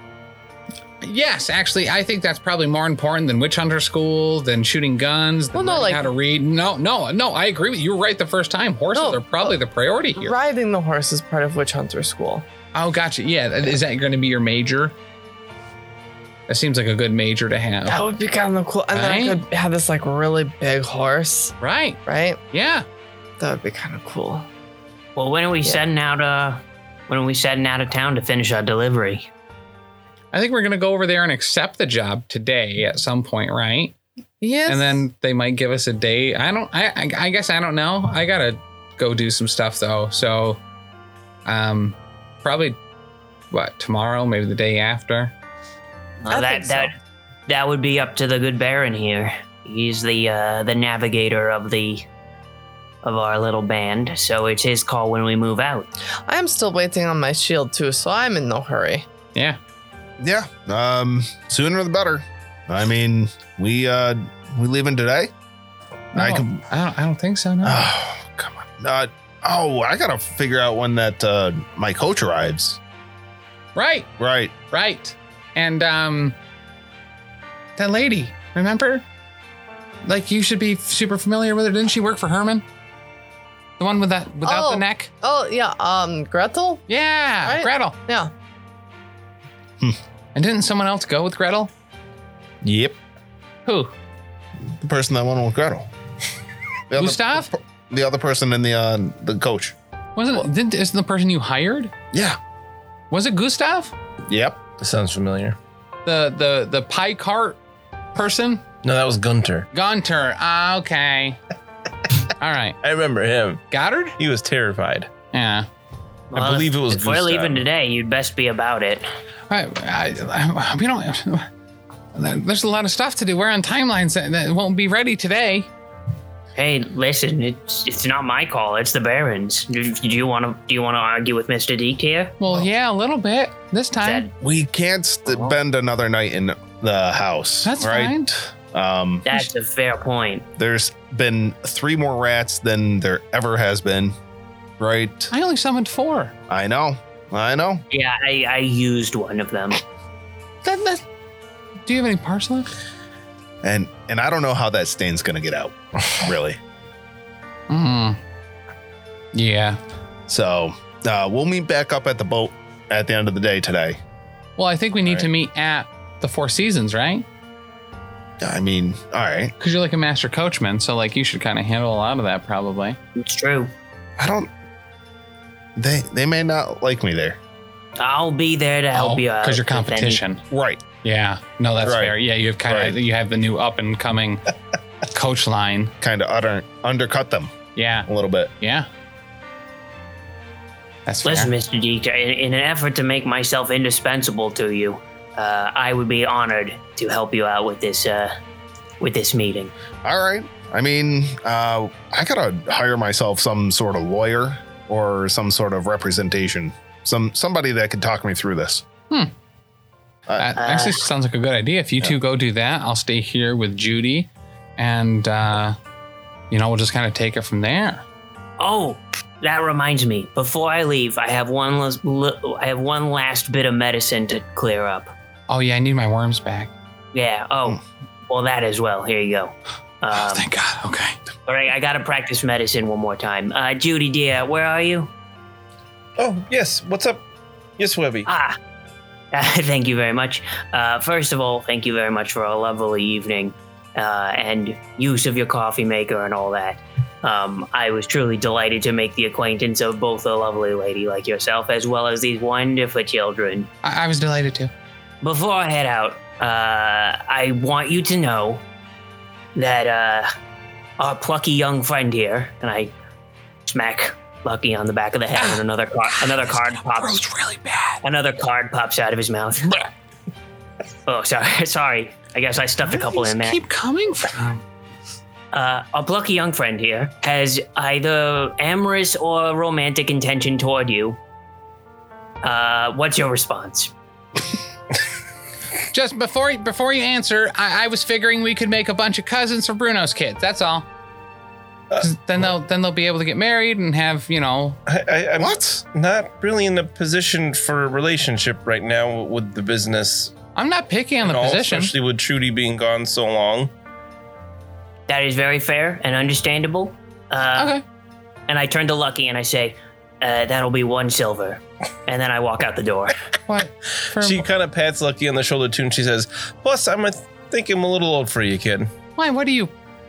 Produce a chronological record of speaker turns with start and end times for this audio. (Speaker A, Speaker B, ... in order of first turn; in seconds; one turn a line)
Speaker A: 1.0-10.3
Speaker B: 5.5-6.1
Speaker B: 8.9-9.6
Speaker B: 10.2-12.4
Speaker A: 12.7-14.9
Speaker A: 16.5-18.1
Speaker B: 17.9-22.4
Speaker A: 18.9-19.4
Speaker A: 21.6-22.0
Speaker A: 22.5-22.9
Speaker B: 23.4-24.5
Speaker C: 25.2-29.3
Speaker A: 30.3-34.0
Speaker B: 34.4-35.0
Speaker A: 34.7-40.6
Speaker A: 41.5-42.8
Speaker A: 43.5-45.3
Speaker C: 46.2-47.0
Speaker B: 46.3-46.9
Speaker C: 47.5-52.1
Speaker C: 53.0-55.9
Speaker B: 56.3-59.1
Speaker D: 60.2-65.3
Speaker A: 66.1-67.9
Speaker D: 66.2-66.6
Speaker D: 67.6-72.8
Speaker A: 73.8-74.1
Speaker D: 74.2-74.5
Speaker A: 74.7-76.4
Speaker A: 77.8-79.0
Speaker A: 80.0-82.6
Speaker A: 83.8-85.1
Speaker B: 84.4-86.9
Speaker A: 86.9-88.0
Speaker B: 87.4-88.3
Speaker A: 90.3-91.7
Speaker D: 92.6-93.0
Speaker A: 93.7-93.9
Speaker D: 94.7-95.9
Speaker D: 96.9-99.8
Speaker A: 97.0-97.5
Speaker A: 100.2-101.9
Speaker D: 102.1-102.4
Speaker A: 103.1-103.9
Speaker D: 104.3-104.6
Speaker E: 104.8-105.6
Speaker A: 106.0-107.6
Speaker A: 108.2-108.6
Speaker E: 108.8-109.7
Speaker A: 109.7-111.4
Speaker A: 112.4-112.8
Speaker E: 112.8-113.6
Speaker A: 113.7-114.2
Speaker E: 114.2-115.1
Speaker A: 115.3-115.7
Speaker C: 116.3-119.1
Speaker E: 116.3-117.6
Speaker A: 119.5-121.5
Speaker A: 122.1-125.7
Speaker C: 126.5-132.4
Speaker A: 132.4-134.3
Speaker C: 134.0-134.3
Speaker D: 134.4-139.2
Speaker C: 135.3-135.6
Speaker A: 137.7-138.2
Speaker C: 139.2-140.4
Speaker D: 140.6-144.2
Speaker D: 144.8-145.3
Speaker A: 145.3-146.3
Speaker D: 146.5-147.8
Speaker C: 147.9-149.8
Speaker A: 150.6-151.0
Speaker A: 151.8-152.7
Speaker D: 153.6-156.6
Speaker A: 157.7-158.2
Speaker A: 159.3-159.8
Speaker D: 160.3-164.0
Speaker A: 164.6-167.2
Speaker D: 168.4-169.5
Speaker A: 169.6-173.0
Speaker C: 173.2-173.7
Speaker D: 174.2-174.5
Speaker D: 175.8-177.4
Speaker C: 178.0-180.2
Speaker A: 178.9-185.9
Speaker D: 180.5-180.8
Speaker D: 181.8-183.0
Speaker D: 186.0-188.5
Speaker A: 187.8-188.1
Speaker A: 188.6-188.9
Speaker A: 191.1-191.5
Speaker C: 191.2-198.3
Speaker C: 199.0-199.7
Speaker D: 200.0-208.9
Speaker D: 210.3-210.5
Speaker A: 210.4-215.8
Speaker C: 210.6-211.1
Speaker A: 216.5-218.0
Speaker C: 218.6-225.1
Speaker A: 225.5-226.7
Speaker C: 227.1-230.4
Speaker A: 230.1-231.2
Speaker C: 231.5-235.1
Speaker E: 236.2-237.2
Speaker E: 237.8-238.3
Speaker C: 238.3-238.6
Speaker C: 239.3-253.7
Speaker A: 253.8-254.7
Speaker C: 255.2-258.6
Speaker C: 259.6-260.3
Speaker C: 261.0-262.9
Speaker C: 263.7-267.2
Speaker A: 266.2-268.0
Speaker C: 268.0-269.8
Speaker C: 271.1-273.6
Speaker A: 272.9-274.6
Speaker C: 275.5-281.2
Speaker C: 282.4-283.9
Speaker A: 285.9-290.9
Speaker A: 292.0-294.8
Speaker E: 294.9-300.4
Speaker D: 295.4-295.8
Speaker A: 300.6-301.9
Speaker E: 301.2-303.7
Speaker C: 305.1-307.8
Speaker A: 307.6-307.8
Speaker C: 308.5-313.1
Speaker A: 313.5-314.4
Speaker E: 314.1-318.9
Speaker A: 319.2-319.7